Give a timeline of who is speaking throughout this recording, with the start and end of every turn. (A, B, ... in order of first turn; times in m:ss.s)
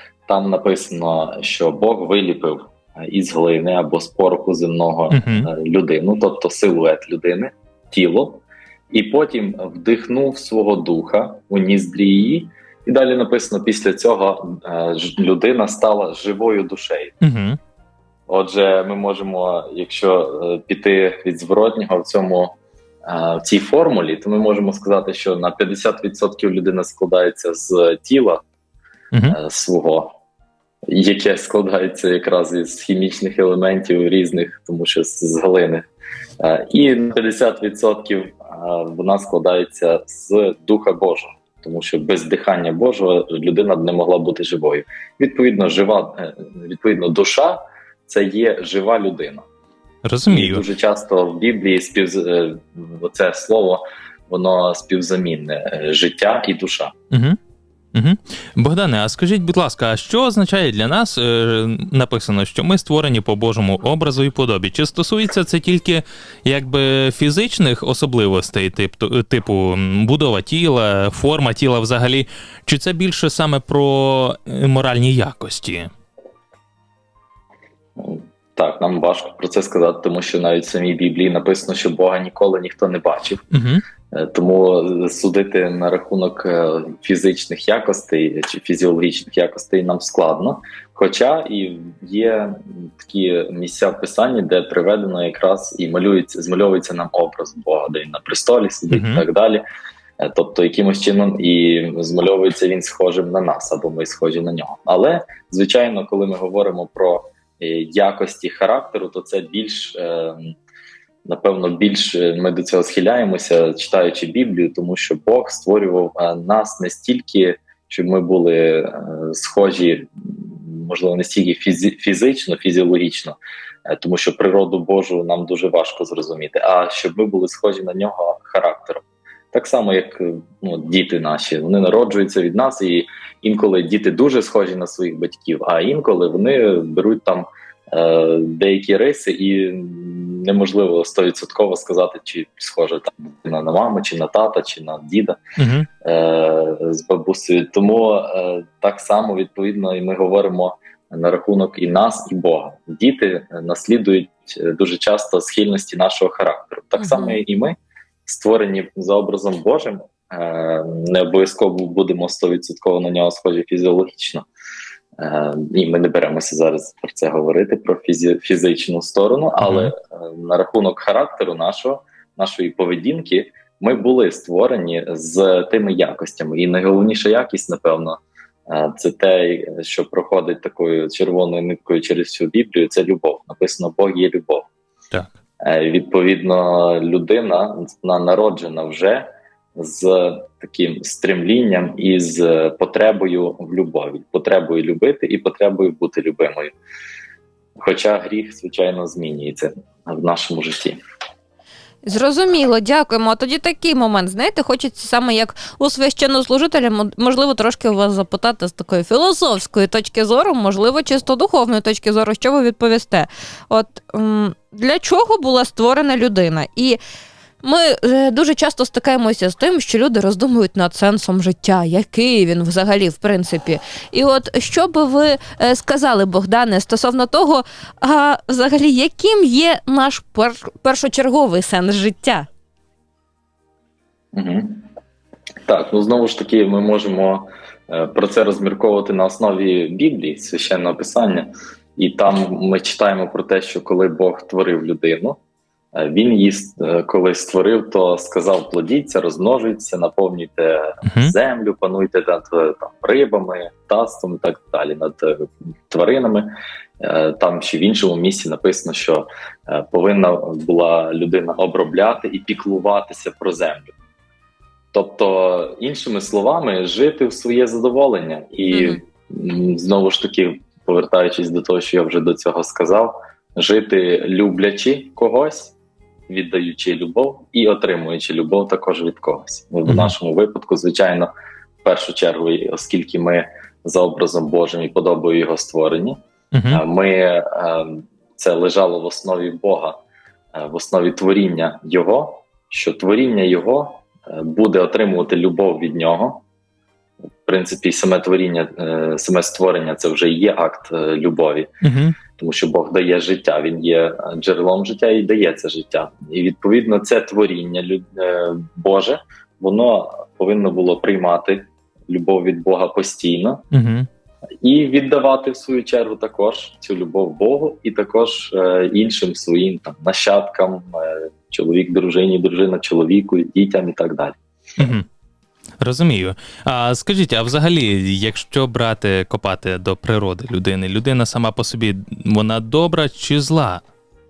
0:00.3-0:17.1 A
0:05.1-0:05.5 B
0:17.2-0:17.6 B
0:18.3-0:28.4 A
0:29.1-0:29.4 B
0:29.3-0:30.1 A
0:30.9-0:35.9 A
0:36.4-0:49.4 A
0:50.0-0:50.6 B
0:50.3-0:56.9 A
0:57.1-0:57.4 B
0:57.9-1:15.9 B
1:18.0-1:23.4 A
1:23.5-1:23.8 B
1:24.1-1:39.6 A
1:38.9-1:39.2 B
1:40.2-1:50.5 A
1:51.2-2:25.4 A
2:25.6-2:25.9 B
2:26.0-2:44.5 A
2:37.0-2:37.4 C
2:45.2-3:04.7 A
2:49.6-2:49.9 B
3:05.6-3:16.7 A
3:17.8-3:21.0 A
3:22.0-3:37.0 C
3:37.6-3:52.5 C
3:54.3-3:54.8 A
3:55.6-4:05.4 A
4:05.9-4:23.9 A
4:11.0-4:11.3 B
4:24.9-4:35.7 A
4:28.7-4:29.0 C
4:36.3-4:41.3 A
4:39.8-4:40.1 B
4:41.8-4:50.0 A
4:46.5-4:46.8 B
4:50.5-4:56.4 A
4:57.4-5:01.7 A
5:01.8-5:02.2 B
5:02.4-5:13.6 A
5:13.7-5:14.1 B
5:14.6-5:24.4 A
5:24.8-5:25.0 B
5:25.8-5:33.8 B